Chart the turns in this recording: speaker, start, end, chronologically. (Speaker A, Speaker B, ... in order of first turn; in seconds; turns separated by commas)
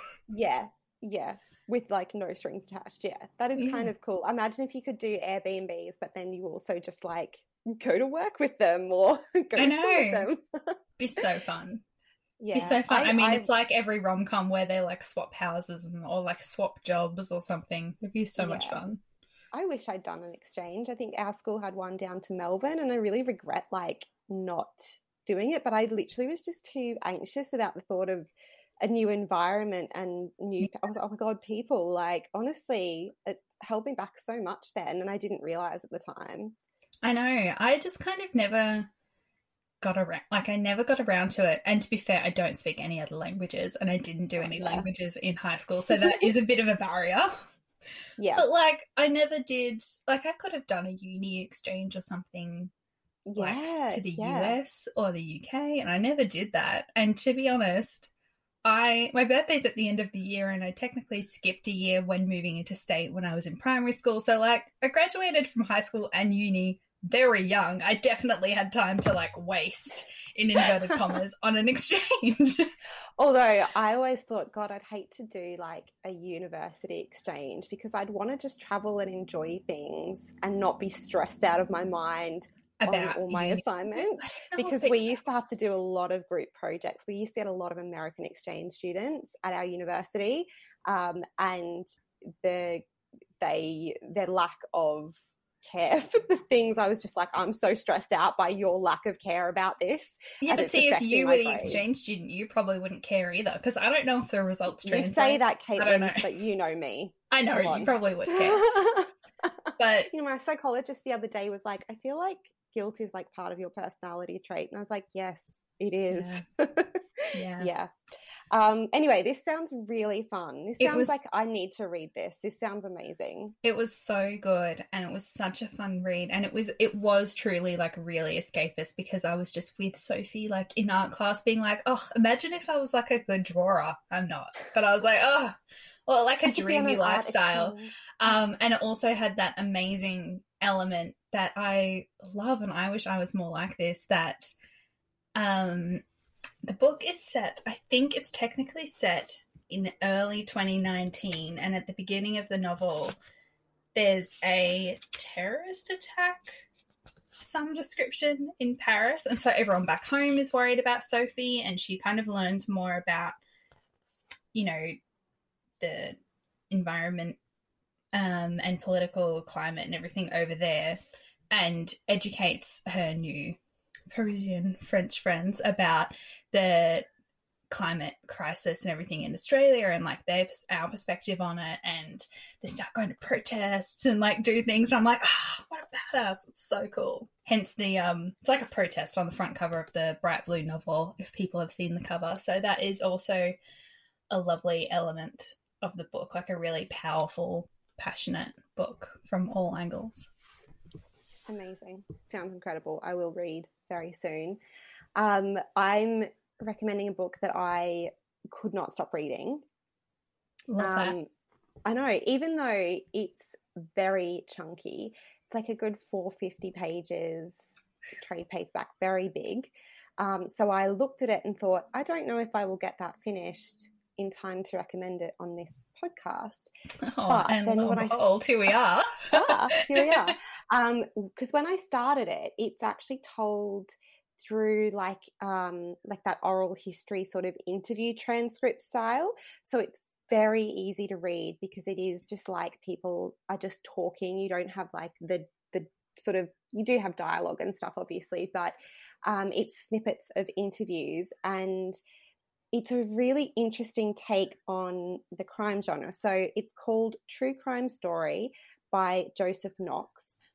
Speaker A: 0.3-10.8, Speaker B: 3.5-3.9, Speaker B: 9.6-10.3, Speaker B: 11.0-11.8, Speaker A: 12.4-13.5, Speaker B: 12.5-19.0, Speaker A: 18.4-18.8, Speaker A: 19.5-28.3, Speaker A: 28.8-36.5, Speaker B: 37.0-38.9, Speaker B: 39.8-47.4, Speaker A: 44.4-44.8, Speaker A: 45.9-46.3, Speaker A: 48.2-48.4, Speaker B: 48.3-52.7, Speaker A: 53.2-54.6, Speaker B: 53.4-58.1, Speaker B: 58.6-72.7, Speaker A: 73.2-92.8, Speaker B: 82.8-85.2, Speaker A: 93.4-101.9, Speaker B: 100.4-106.3, Speaker A: 104.8-109.5, Speaker B: 107.3-108.7, Speaker B: 109.8-110.1, Speaker A: 110.1-117.9, Speaker B: 116.1-116.4, Speaker B: 117.3-117.7, Speaker A: 118.5-123.5, Speaker B: 120.8-121.2, Speaker B: 123.6-135.6, Speaker B: 136.1-144.5, Speaker A: 136.4-138.4, Speaker B: 145.3-146.0, Speaker B: 146.6-153.2, Speaker B: 153.9-156.6, Speaker B: 157.4-163.4, Speaker B: 164.5-165.0, Speaker B: 165.8-166.2, Speaker B: 166.7-167.4, Speaker B: 168.1-171.0, Speaker B: 171.5-173.6, Speaker B: 174.1-177.1, Speaker B: 177.7-193.6, Speaker B: 194.3-200.3, Speaker A: 201.5-204.6, Speaker A: 205.2-209.6, Speaker B: 210.7-211.2, Speaker A: 210.8-211.3, Speaker A: 211.8-226.7, Speaker B: 227.0-230.3, Speaker A: 227.3-228.3, Speaker A: 229.3-252.0, Speaker A: 252.7-260.4